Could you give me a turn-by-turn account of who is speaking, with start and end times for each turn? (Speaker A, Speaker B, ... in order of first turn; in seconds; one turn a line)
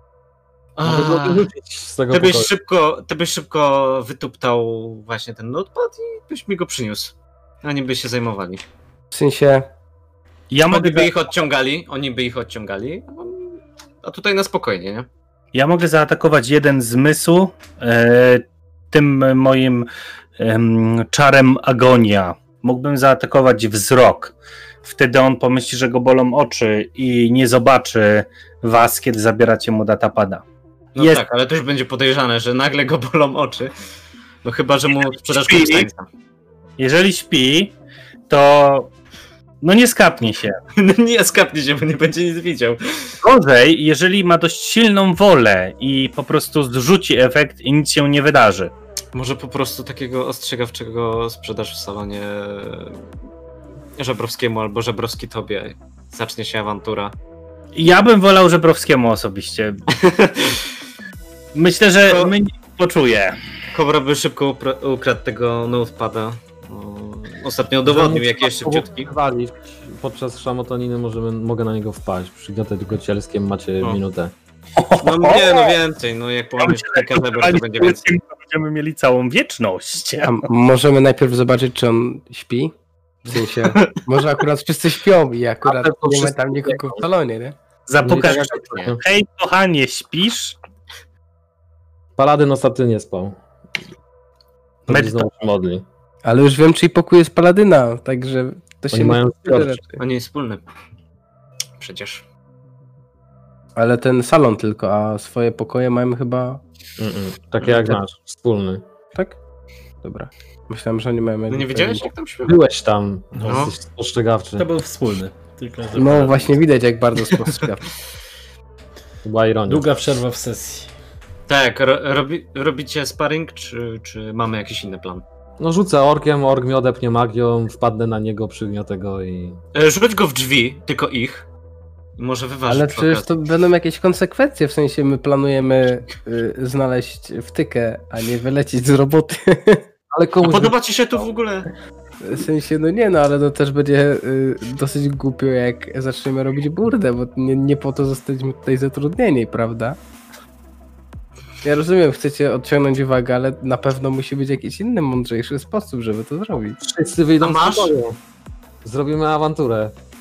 Speaker A: 0.8-1.5
Speaker B: 0.8-2.5
Speaker A: 2.1-8.7
Speaker C: 9.1-9.7
Speaker D: 10.5-11.1
Speaker A: 10.7-15.1
Speaker D: 15.5-30.4
Speaker A: 30.9-33.7
Speaker D: 31.0-31.2
Speaker A: 34.4-36.1
Speaker D: 35.1-35.9
Speaker D: 36.8-37.8
Speaker D: 38.3-38.9
Speaker D: 39.6-40.6
Speaker A: 40.8-43.2
Speaker D: 43.2-48.7
Speaker A: 49.1-53.0
Speaker A: 54.0-57.1
Speaker D: 57.8-59.8
Speaker A: 60.0-60.6
Speaker D: 61.5-63.4
Speaker A: 62.1-62.3
Speaker A: 63.7-69.1
Speaker B: 67.8-74.3
Speaker D: 74.8-75.7
Speaker A: 75.0-78.1
Speaker D: 76.6-80.4
Speaker C: 80.2-82.7
Speaker C: 83.3-87.6
Speaker A: 83.4-83.9
Speaker B: 85.6-87.0
Speaker D: 87.9-90.6
Speaker B: 88.0-89.0
Speaker B: 92.2-93.4
Speaker D: 94.9-95.2
Speaker B: 94.9-95.8
Speaker C: 96.2-100.0
Speaker B: 98.9-99.8
Speaker A: 100.0-100.6
Speaker A: 101.8-102.2
Speaker C: 103.8-106.6
Speaker B: 107.0-108.8
Speaker A: 107.6-108.0
Speaker C: 110.0-112.1
Speaker A: 111.5-112.6
Speaker B: 112.4-114.7
Speaker E: 113.4-113.7
Speaker A: 113.4-113.7
Speaker E: 114.6-116.6
Speaker C: 116.0-117.9
Speaker B: 119.2-119.9
Speaker E: 119.7-120.9
Speaker A: 121.5-125.2
Speaker B: 125.6-129.6
Speaker A: 129.8-131.5
Speaker A: 132.2-133.3
Speaker C: 132.7-139.9
Speaker B: 140.1-140.7
Speaker A: 140.4-141.7
Speaker C: 142.2-150.0
Speaker C: 151.6-156.8
Speaker B: 156.8-158.2
Speaker A: 157.4-157.9
Speaker B: 158.8-159.9